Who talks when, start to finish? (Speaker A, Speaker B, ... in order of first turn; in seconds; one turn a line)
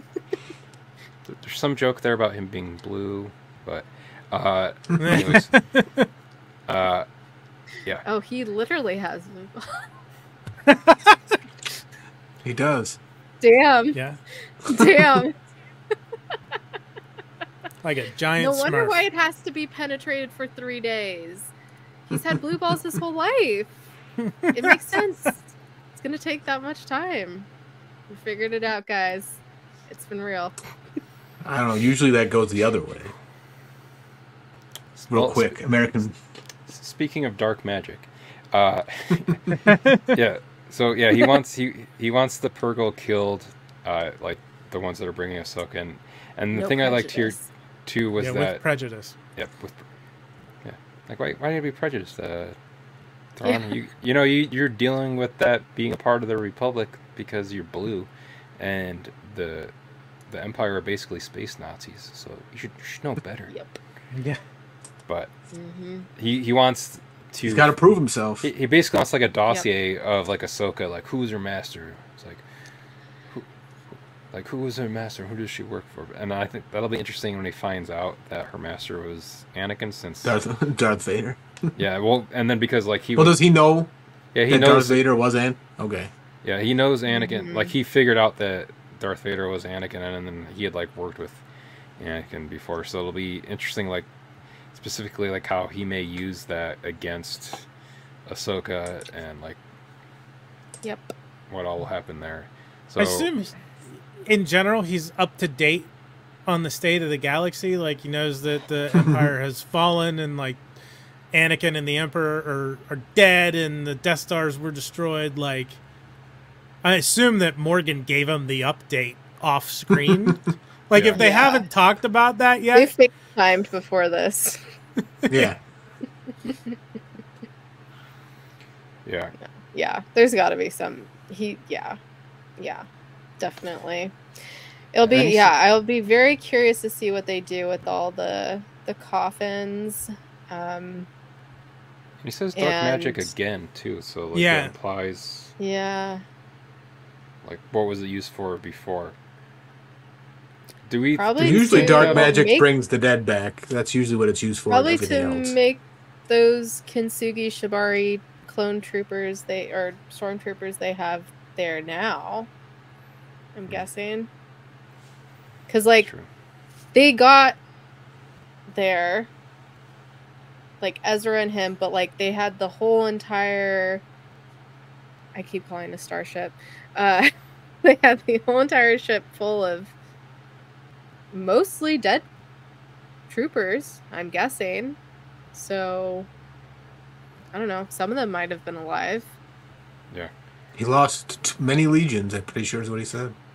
Speaker A: 1.3-5.5
Speaker B: 5.0-6.1
Speaker C: 5.1-5.3
Speaker A: 6.7-7.1
Speaker D: 8.1-9.9
Speaker B: 10.7-11.4
Speaker C: 12.4-13.0
Speaker D: 13.4-14.0
Speaker B: 13.9-14.2
Speaker D: 14.6-15.3
Speaker B: 17.8-19.0
Speaker D: 18.4-21.5
Speaker D: 22.1-23.8
Speaker B: 24.2-24.6
Speaker D: 24.5-27.5
Speaker D: 28.1-30.6
Speaker C: 31.4-33.1
Speaker A: 35.0-35.6
Speaker C: 35.1-36.1
Speaker A: 36.7-48.6
Speaker B: 39.6-40.2
Speaker D: 46.5-47.5
Speaker B: 48.2-49.1
Speaker A: 49.4-49.8
Speaker A: 50.6-52.6
Speaker A: 53.4-59.7
Speaker D: 53.4-53.7
Speaker A: 60.3-63.5
Speaker D: 63.5-63.8
Speaker B: 64.1-64.4
Speaker D: 65.5-66.1
Speaker A: 66.2-67.7
Speaker C: 67.4-68.5
Speaker A: 68.4-72.4
Speaker A: 74.3-80.3
Speaker C: 80.2-81.7
Speaker A: 81.8-83.4
Speaker C: 83.2-83.9
Speaker A: 84.3-85.0
Speaker C: 84.5-86.1
Speaker A: 86.4-91.4
Speaker D: 87.1-87.7
Speaker A: 92.0-94.1
Speaker A: 94.7-97.7
Speaker A: 98.3-99.6
Speaker D: 100.8-101.1
Speaker A: 101.5-103.3
Speaker B: 103.0-103.6
Speaker B: 104.2-105.9
Speaker B: 106.5-110.6
Speaker C: 109.0-109.3
Speaker B: 111.3-115.8
Speaker B: 116.8-122.9
Speaker C: 120.1-120.4
Speaker A: 120.9-121.2
Speaker D: 121.2-121.7
Speaker D: 122.7-124.6
Speaker C: 125.3-125.6
Speaker A: 129.1-129.3
Speaker D: 129.7-132.0
Speaker D: 132.6-132.9
Speaker D: 133.4-134.2
Speaker D: 134.9-141.1
Speaker A: 135.0-135.5
Speaker A: 142.2-145.5
Speaker D: 142.6-143.3
Speaker B: 144.3-144.7
Speaker D: 145.6-146.2
Speaker A: 147.4-149.2
Speaker A: 150.8-152.3
Speaker D: 151.2-152.7
Speaker C: 151.4-155.6
Speaker D: 154.7-162.5
Speaker D: 163.6-164.3
Speaker D: 165.7-166.1
Speaker A: 166.0-166.3
Speaker D: 166.9-167.6
Speaker D: 168.7-169.3
Speaker D: 170.8-174.0
Speaker D: 175.3-177.3
Speaker D: 177.8-179.9
Speaker D: 181.3-182.3
Speaker D: 183.3-185.0
Speaker D: 185.5-186.3
Speaker D: 187.5-189.3
Speaker C: 190.8-193.3